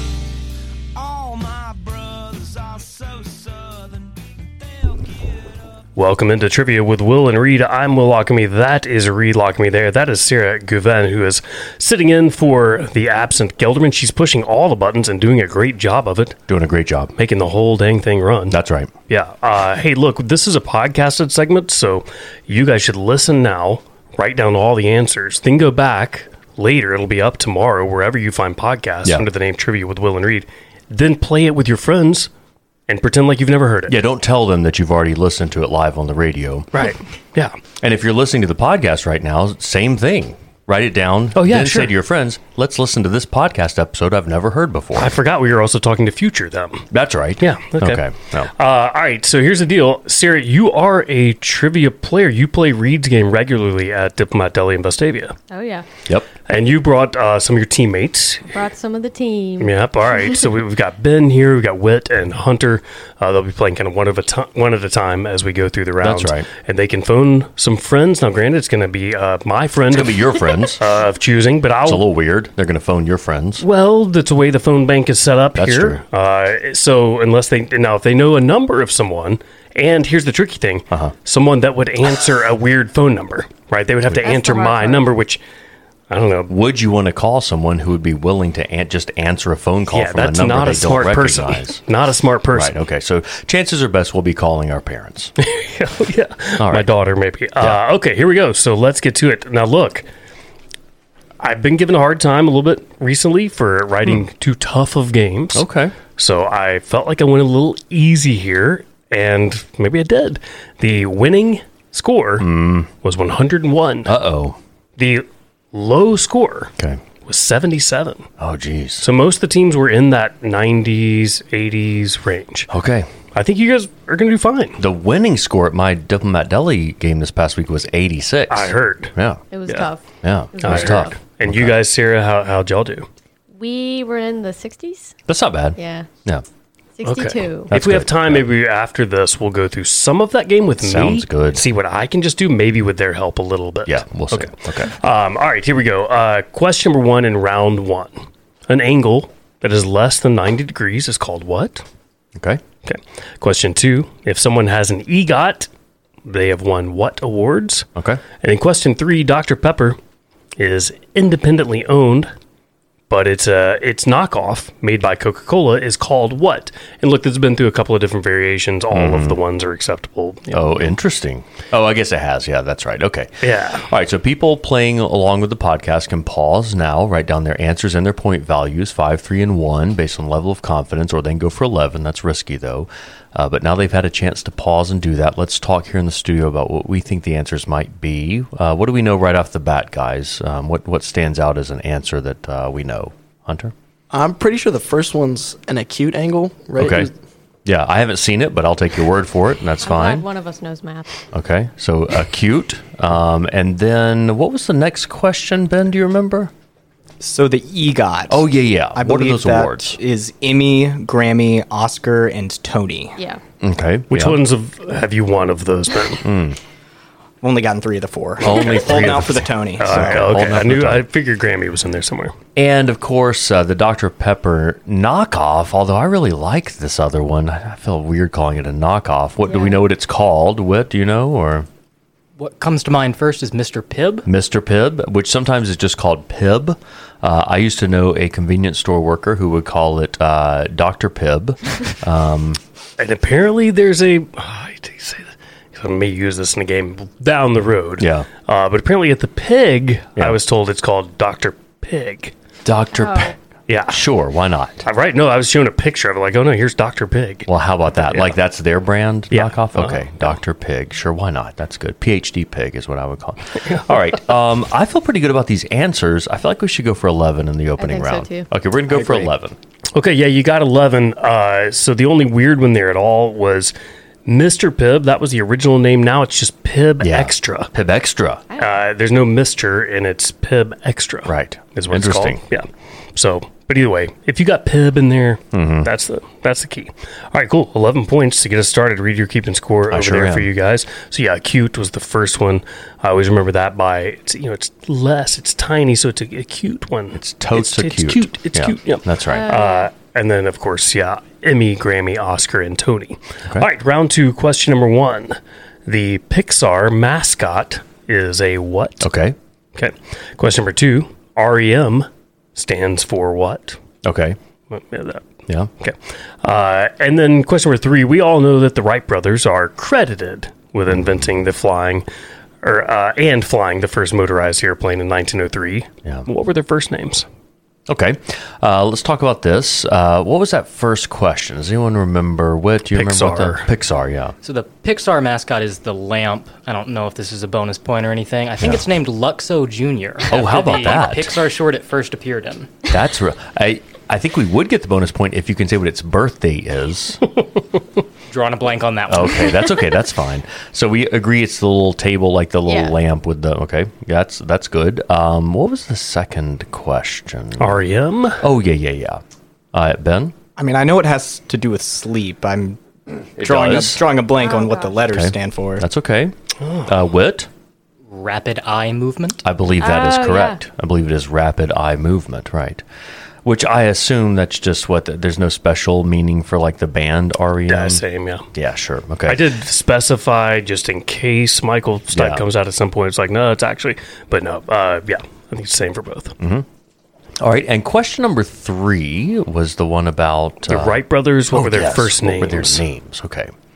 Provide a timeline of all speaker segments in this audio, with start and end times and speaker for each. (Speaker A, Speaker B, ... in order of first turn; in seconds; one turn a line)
Speaker A: 0.9-5.4
Speaker B: 6.0-16.4
Speaker C: 16.5-17.1
Speaker B: 17.1-32.3
Speaker C: 18.5-18.9
Speaker B: 32.9-34.0
Speaker C: 33.9-36.7
Speaker B: 36.7-37.6
Speaker C: 37.8-45.1
Speaker B: 41.3-41.9
Speaker B: 45.0-46.9
Speaker C: 46.9-48.5
Speaker B: 47.4-55.4
Speaker D: 55.5-55.9
Speaker B: 56.5-58.5
Speaker D: 58.5-59.7
Speaker B: 59.6-70.2
Speaker C: 66.0-66.5
Speaker C: 69.9-70.8
Speaker B: 70.8-72.1
Speaker C: 71.8-73.6
Speaker B: 73.6-85.4
Speaker C: 75.5-76.0
Speaker D: 84.2-85.1
Speaker B: 86.1-86.5
Speaker C: 86.5-91.8
Speaker B: 89.9-92.7
Speaker C: 92.5-95.3
Speaker B: 95.4-100.0
Speaker C: 96.6-96.9
Speaker B: 101.4-105.6
Speaker C: 105.5-105.9
Speaker B: 106.2-112.5
Speaker C: 112.4-112.9
Speaker B: 113.0-114.1
Speaker C: 114.0-114.6
Speaker B: 115.0-116.7
Speaker B: 117.2-118.3
Speaker C: 118.4-119.1
Speaker B: 119.0-122.7
Speaker C: 122.7-123.1
Speaker B: 123.3-124.8
Speaker C: 124.8-129.4
Speaker B: 128.5-129.1
Speaker D: 129.5-131.2
Speaker C: 130.2-131.7
Speaker B: 130.6-133.1
Speaker D: 133.5-135.2
Speaker C: 135.3-136.4
Speaker D: 135.8-136.1
Speaker D: 137.0-137.7
Speaker B: 137.0-151.8
Speaker C: 137.7-138.4
Speaker C: 140.8-141.6
Speaker C: 143.8-144.9
Speaker C: 152.3-152.6
Speaker B: 152.8-155.7
Speaker B: 156.2-157.9
Speaker C: 157.9-158.2
Speaker B: 158.4-160.0
Speaker B: 160.6-162.3
Speaker B: 163.1-170.9
Speaker C: 168.9-169.4
Speaker C: 170.5-193.7
Speaker B: 173.4-173.9
Speaker E: 194.1-197.1
Speaker C: 196.8-197.1
Speaker C: 197.6-200.2
Speaker D: 199.8-201.2
Speaker C: 201.3-206.5
Speaker F: 207.2-213.2
Speaker C: 208.3-210.0
Speaker C: 213.6-214.4
Speaker B: 214.1-216.2
Speaker C: 216.2-216.6
Speaker F: 217.4-220.3
Speaker B: 218.4-222.3
Speaker C: 218.4-221.0
Speaker C: 222.6-231.7
Speaker D: 229.4-229.8
Speaker G: 232.4-234.3
Speaker C: 234.2-242.6
Speaker B: 243.0-252.3
Speaker C: 248.0-248.3
Speaker C: 252.6-253.3
Speaker D: 253.0-253.3
Speaker B: 253.7-254.0
Speaker C: 253.9-254.8
Speaker B: 254.8-258.4
Speaker C: 257.5-269.6
Speaker B: 259.3-260.3
Speaker B: 263.6-263.9
Speaker D: 267.8-268.5
Speaker B: 269.9-273.7
Speaker B: 274.2-277.7
Speaker C: 277.0-278.4
Speaker B: 278.6-309.1
Speaker C: 281.2-282.4
Speaker C: 285.5-285.9
Speaker C: 289.9-290.5
Speaker C: 297.1-299.5
Speaker D: 299.3-299.9
Speaker C: 309.0-309.4
Speaker B: 309.8-313.8
Speaker C: 314.0-314.4
Speaker B: 314.7-315.2
Speaker B: 315.8-322.1
Speaker C: 320.9-321.3
Speaker B: 322.6-327.2
Speaker C: 327.9-334.3
Speaker B: 332.9-333.7
Speaker G: 334.4-342.8
Speaker C: 340.3-341.3
Speaker C: 342.9-347.2
Speaker G: 348.3-349.6
Speaker C: 349.1-357.8
Speaker D: 352.7-352.9
Speaker B: 357.6-358.4
Speaker C: 358.4-359.2
Speaker C: 359.7-360.4
Speaker F: 360.6-365.9
Speaker C: 363.4-364.0
Speaker D: 364.4-365.0
Speaker C: 365.1-366.3
Speaker B: 366.6-366.9
Speaker C: 366.9-367.5
Speaker G: 368.1-369.4
Speaker C: 369.4-372.8
Speaker D: 369.8-370.6
Speaker C: 373.4-378.0
Speaker B: 377.7-378.4
Speaker C: 378.5-379.5
Speaker B: 379.2-386.3
Speaker C: 382.1-382.4
Speaker C: 386.4-386.6
Speaker C: 387.4-393.5
Speaker B: 390.7-392.8